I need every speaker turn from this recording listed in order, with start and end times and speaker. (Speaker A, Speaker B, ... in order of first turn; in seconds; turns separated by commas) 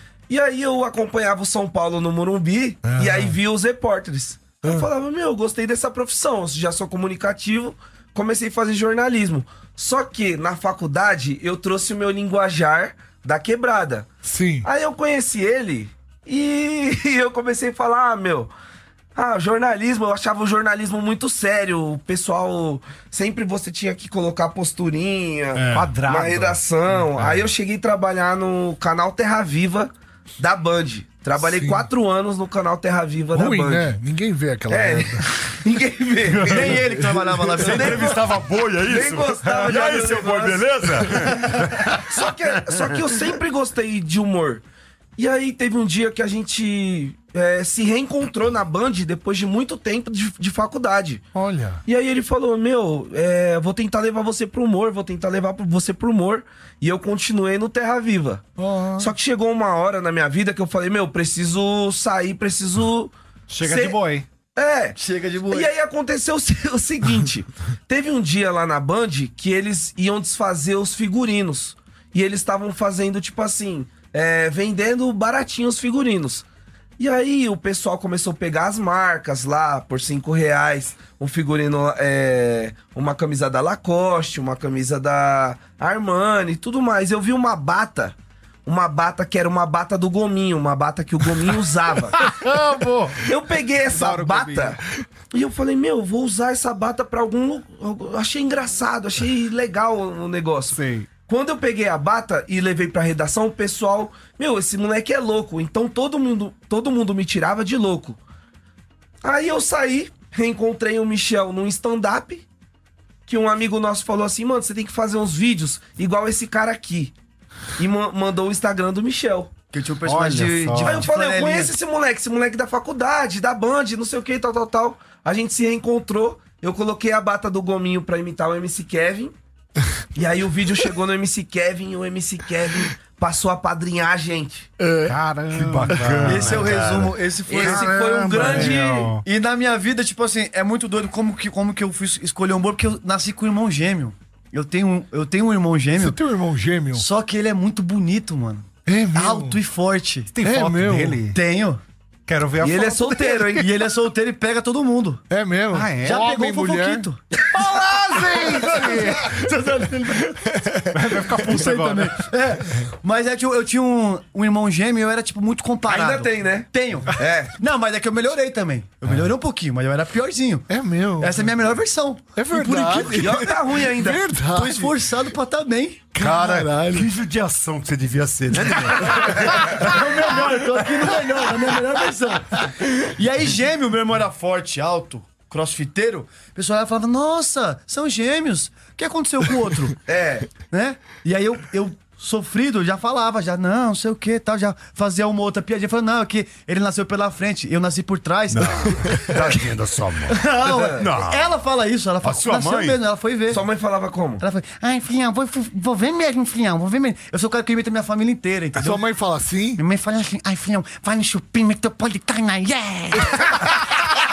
Speaker A: 0.3-14.1, Speaker B: 2.8-3.4, Speaker B: 14.2-14.7, Speaker A: 14.6-18.5, Speaker A: 19.1-33.9, Speaker B: 25.6-25.9, Speaker C: 25.7-26.6, Speaker B: 31.4-31.9, Speaker B: 33.3-35.3, Speaker A: 34.7-36.8, Speaker D: 36.5-38.2, Speaker E: 37.6-43.2, Speaker A: 37.7-38.2, Speaker A: 38.8-41.2, Speaker A: 42.0-44.6, Speaker A: 45.2-51.2, Speaker B: 51.3-51.8, Speaker A: 51.9-64.0, Speaker B: 58.6-59.1, Speaker C: 63.5-64.3, Speaker A: 64.5-65.0, Speaker D: 65.0-65.7, Speaker A: 65.5-76.4, Speaker A: 77.0-92.2, Speaker C: 92.2-93.3, Speaker A: 93.2-94.8, Speaker C: 93.8-94.8, Speaker A: 95.3-108.2, Speaker C: 100.7-101.1, Speaker A: 109.2-112.4, Speaker A: 113.3-117.1, Speaker A: 117.8-119.5, Speaker D: 119.7-121.7, Speaker C: 120.0-121.1, Speaker A: 120.8-129.3, Speaker A: 130.1-134.7, Speaker C: 135.0-136.8, Speaker E: 135.5-137.1, Speaker D: 136.2-146.2, Speaker A: 137.5-139.1, Speaker C: 137.5-139.2, Speaker B: 145.9-147.0, Speaker D: 146.9-150.3, Speaker B: 148.8-149.6, Speaker C: 150.3-151.4, Speaker B: 150.4-151.2, Speaker D: 151.3-151.8, Speaker C: 152.3-153.4, Speaker A: 152.6-153.8, Speaker D: 153.2-155.2, Speaker B: 155.3-159.4, Speaker C: 155.7-156.2, Speaker D: 156.0-160.5, Speaker C: 160.9-162.2, Speaker D: 161.2-170.7, Speaker A: 165.9-167.5, Speaker B: 170.7-171.5, Speaker D: 171.2-173.6, Speaker B: 172.3-174.9, Speaker A: 173.1-174.3, Speaker D: 174.3-176.1, Speaker B: 176.1-177.1, Speaker E: 176.2-179.7, Speaker B: 179.0-179.9, Speaker D: 179.6-190.0, Speaker A: 190.1-190.6, Speaker D: 190.5-199.6, Speaker E: 198.5-200.4, Speaker D: 200.2-203.7, Speaker A: 200.7-201.1, Speaker E: 201.0-201.5, Speaker E: 202.2-203.0, Speaker A: 203.5-204.4, Speaker D: 204.4-209.0, Speaker B: 208.8-209.8, Speaker D: 209.8-213.6